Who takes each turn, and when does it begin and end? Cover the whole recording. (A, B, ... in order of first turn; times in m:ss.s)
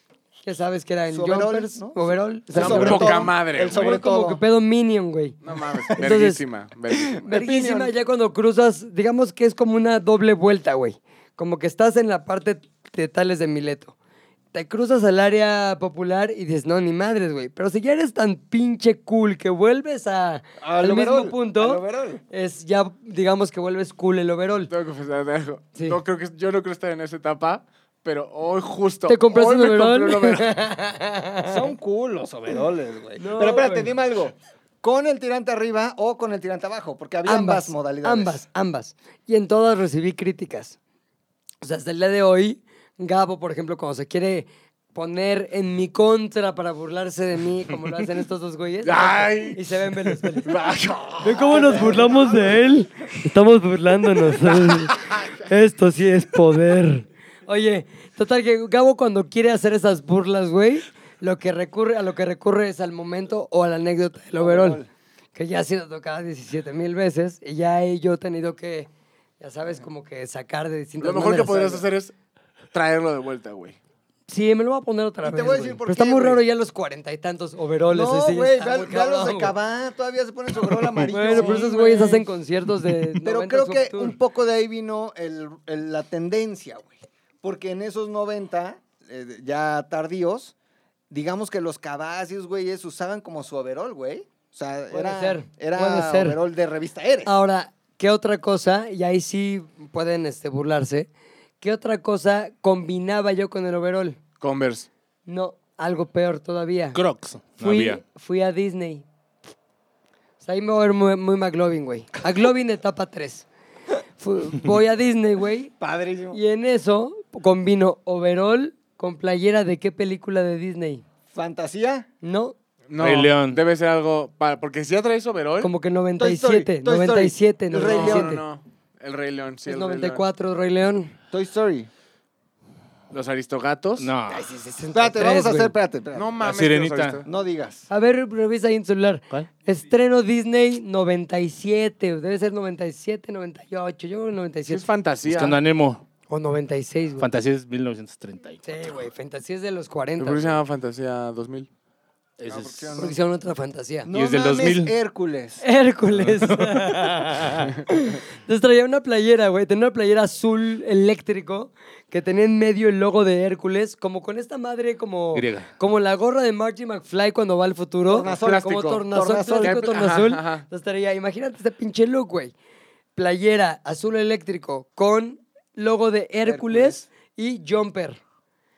0:00.4-0:05.4 A
0:01.1-0:04.4 B
0:02.5-0:04.0 C
0:05.4-0:07.3 C
0:06.0-0:06.4 A
0:07.0-0:07.9 B
0:07.3-0:13.9 A
0:14.5-0:24.7 A
0:20.6-0:22.2 B
0:24.7-0:30.5 C
0:25.8-0:26.0 A
0:29.1-0:31.7 A
0:31.4-0:38.4 B
0:33.2-0:33.9 A
0:37.2-0:40.8 A
0:41.6-0:50.6 A
0:48.8-0:52.0 C
0:51.2-1:04.8 A
0:51.5-0:52.2 B
1:04.4-1:04.9 B
1:05.3-1:08.9 A
1:09.4-1:11.9 A
1:11.0-1:12.1 C
1:12.7-1:13.8 C
1:14.3-1:19.5 A
1:15.2-1:16.4 B
1:17.9-1:22.3 B
1:21.1-1:24.2 A
1:23.2-1:30.5 B
1:31.1-1:37.3 B
1:34.9-1:36.4 A
1:37.2-1:41.1 A
1:41.6-1:44.2 A
1:44.4-1:44.9 C
1:45.3-1:47.0 A
1:47.0-1:48.0 D
1:47.6-1:49.0 A
1:50.4-1:53.5 A
1:54.2-1:55.7 A
1:55.8-1:56.4 B
1:56.3-2:01.0 A
2:01.3-2:02.1 B
2:02.2-2:02.6 A
2:02.9-2:05.7 C
2:03.0-2:03.6 D
2:05.6-2:08.4 A
2:06.2-2:08.4 B
2:07.8-2:10.3 C
2:09.7-2:11.1 A
2:11.3-2:11.9 B
2:13.1-2:14.1 C
2:14.0-2:14.5 D
2:14.3-2:15.7 A
2:14.9-2:16.3 B
2:16.1-2:17.3 C
2:16.4-2:17.2 D
2:17.2-2:17.9 B
2:17.9-2:24.9 A
2:24.7-2:25.6 C
2:25.3-2:26.0 D
2:26.3-2:27.3 A
2:27.2-2:29.1 D
2:28.6-2:30.6 A
2:30.2-2:31.7 C
2:32.4-2:33.1 D
2:32.5-2:33.2 B
2:33.0-2:34.1 A
2:34.1-2:35.6 B
2:34.1-2:34.9 D
2:35.6-2:52.5 A
2:36.2-2:37.7 D
2:45.3-2:45.7 D
2:48.1-2:49.8 B
2:48.3-2:49.1 C
2:49.6-2:50.7 C
2:53.2-2:58.2 A
2:56.4-2:57.0 B